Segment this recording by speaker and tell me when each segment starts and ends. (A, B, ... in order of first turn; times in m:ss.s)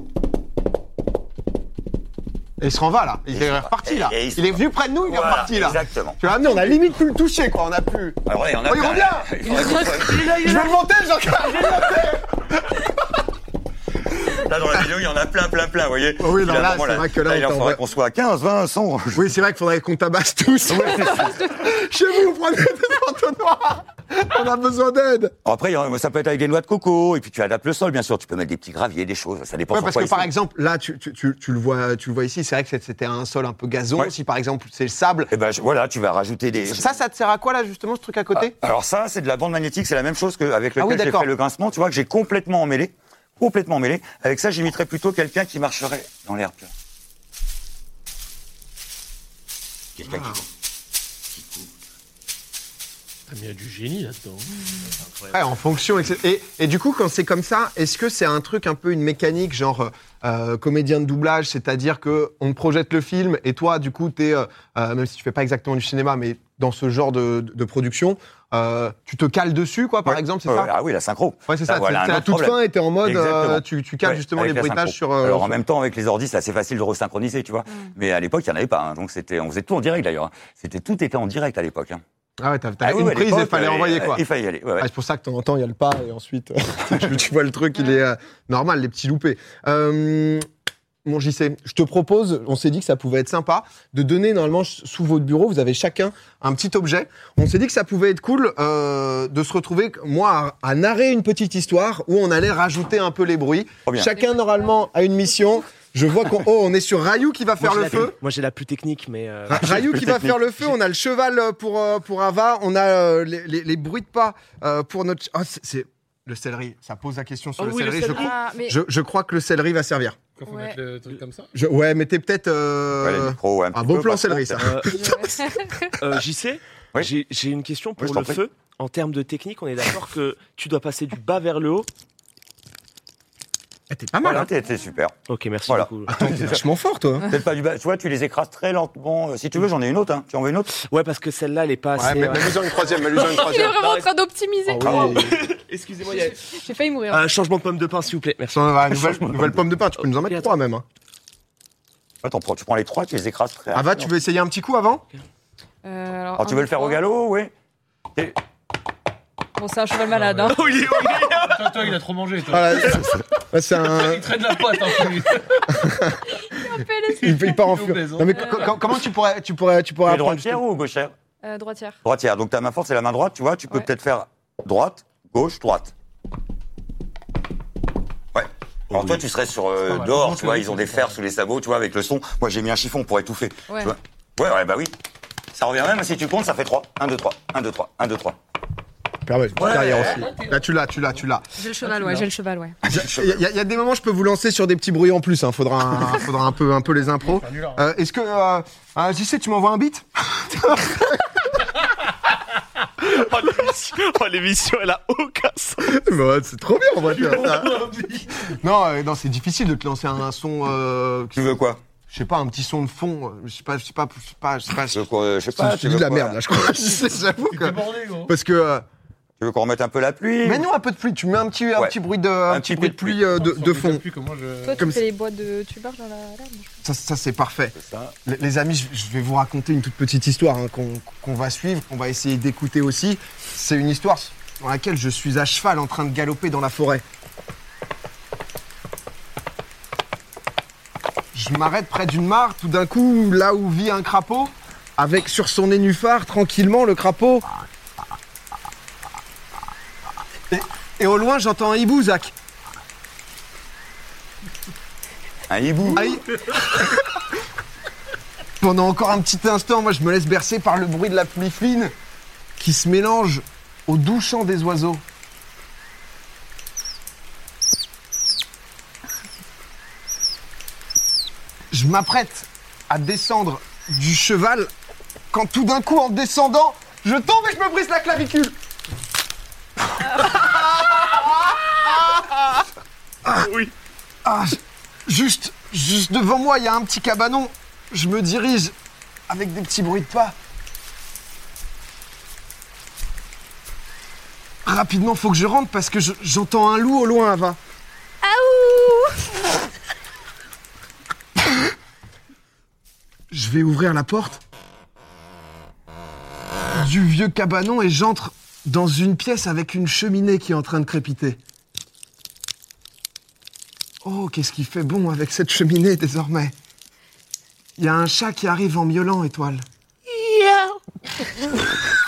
0:02.6-0:12.9 A
0:03.3-0:06.2 B
0:08.2-0:10.4 B
0:09.4-0:10.7 C
0:14.1-0:19.3 B
0:16.2-0:17.8 A
0:19.1-0:25.3 A
0:20.7-0:21.4 B
0:25.4-0:30.3 B
0:29.7-0:35.3 A
0:35.3-0:37.0 B
0:36.6-0:38.5 A
0:38.4-0:46.7 B
0:40.8-0:41.3 A
0:50.0-0:50.5 B
0:50.0-0:50.4 A
0:51.3-0:51.7 B
0:53.3-0:54.5 C
0:55.3-1:10.7 A
1:10.0-1:22.0 B
1:11.5-1:15.6 A
1:22.4-1:24.2 A
1:22.8-1:24.9 B
1:24.8-1:30.5 A
1:31.0-1:48.2 A
1:43.8-1:44.1 B
1:44.2-1:44.7 D
1:47.6-1:50.3 E
1:49.5-2:00.2 A
1:49.6-1:50.3 B
1:57.6-1:58.3 E
1:58.0-1:58.8 D
2:00.4-2:01.5 C
2:00.5-2:00.8 D
2:01.5-2:05.5 A
2:03.0-2:04.8 B
2:04.6-2:05.0 E
2:04.9-2:05.9 D
2:06.0-2:11.9 E
2:08.0-2:08.4 B
2:13.9-2:14.5 A
2:14.2-2:15.1 B
2:15.3-2:16.6 E
2:15.7-2:16.6 B
2:16.1-2:17.3 A
2:17.2-2:20.8 B
2:20.7-2:24.1 E
2:22.0-2:23.8 A
2:23.2-2:25.2 D
2:24.7-2:25.4 A
2:24.8-2:26.6 E
2:24.9-2:25.1 B
2:26.1-2:27.2 D
2:27.1-2:30.5 E
2:28.5-2:30.8 A
2:32.2-2:34.1 B
2:33.7-2:35.0 A
2:35.8-2:37.0 D
2:36.4-2:37.5 B
2:39.6-2:41.2 D
2:40.3-2:42.0 E
2:41.4-2:43.1 C
2:42.5-2:44.4 A
2:43.8-2:45.7 C
2:45.7-2:46.2 A
2:46.3-2:47.8 D
2:47.1-2:48.6 C
2:47.2-2:50.6 A
2:48.3-2:48.7 D
2:50.0-2:51.1 B
2:51.4-2:52.0 D
2:52.0-2:55.9 B
2:58.3-3:05.0 B
2:58.9-2:59.2 E
2:59.9-3:01.1 C
3:03.7-3:04.0 D
3:05.5-3:08.4 B
3:09.2-3:11.5 A
3:09.6-3:10.3 B
3:09.7-3:10.6 C
3:11.6-3:12.8 D
3:11.8-3:12.3 C
3:12.8-3:13.4 B
3:12.8-3:21.2 A
3:17.2-3:17.8 C
3:23.0-3:26.0 E
3:25.8-3:27.8 A
3:27.1-3:28.4 C
3:28.4-3:31.5 A
3:31.3-3:31.8 B
3:32.1-3:38.8 A
3:34.9-3:36.4 B
3:37.5-3:38.3 C
3:39.4-3:40.7 B
3:40.4-3:44.0 A
3:42.5-3:43.2 B
3:43.3-3:44.9 C
3:44.6-3:46.7 D
3:46.8-3:57.0 A
3:47.8-3:48.1 B
4:01.3-4:07.4 A
4:10.5-4:12.3 A
4:15.5-4:16.1 B
4:15.9-4:17.2 A
4:18.6-4:21.9 A
4:22.6-4:25.0 A
4:31.7-4:34.7 A
4:35.3-4:38.6 A
4:40.0-4:42.2 A
4:43.2-4:43.5 A
4:43.3-4:43.7 E
4:44.2-4:48.8 A
4:49.3-4:50.3 A
4:54.6-4:57.6 A
4:58.2-4:59.3 D
5:03.3-5:04.4 A
5:06.7-5:11.4 A
5:14.0-5:16.5 A
5:17.8-5:19.6 A
5:20.1-5:20.6 E